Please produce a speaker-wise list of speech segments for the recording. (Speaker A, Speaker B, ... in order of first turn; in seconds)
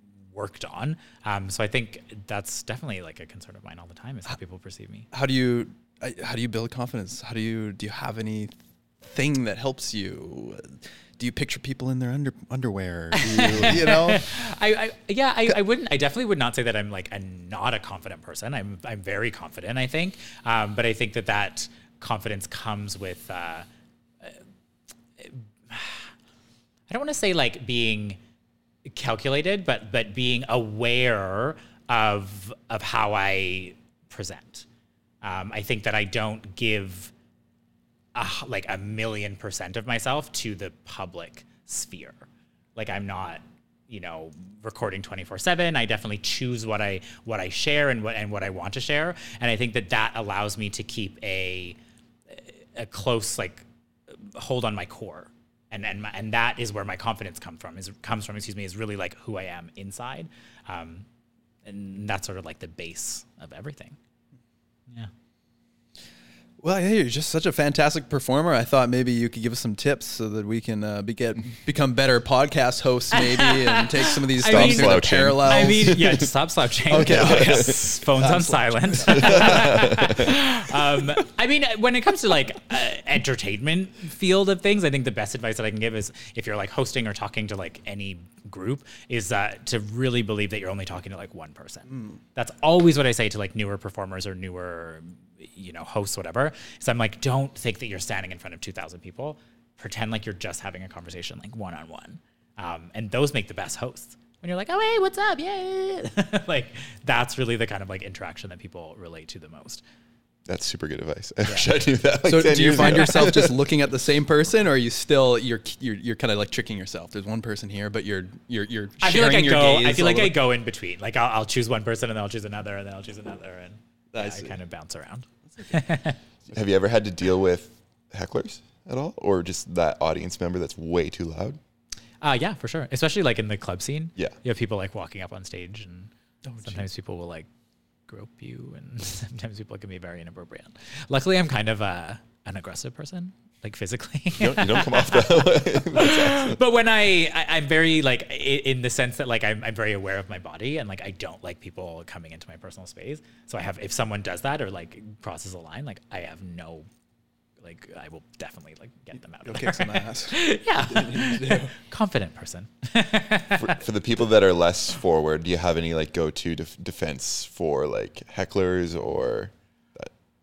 Speaker A: 0.3-5.1, 13.1-23.6, 25.2-26.1, 26.9-28.2, 28.9-34.6, 35.2-37.1, 38.1-51.8, 52.3-61.0, 61.6-64.0, 73.1-109.8, 111.5-111.7, 119.0-126.2, 132.2-136.1, 136.6-137.5, 138.1-156.9, 157.6-163.8
Speaker B: 5.1-14.3, 66.6-76.2, 76.9-80.2, 91.9-92.2, 112.2-120.3, 124.1-124.5, 125.5-126.0, 136.4-136.8, 159.4-161.7
Speaker C: 13.3-13.8, 74.4-76.3, 77.0-77.8, 79.1-80.3, 110.5-113.6, 126.5-131.6, 144.3-146.6, 163.5-170.1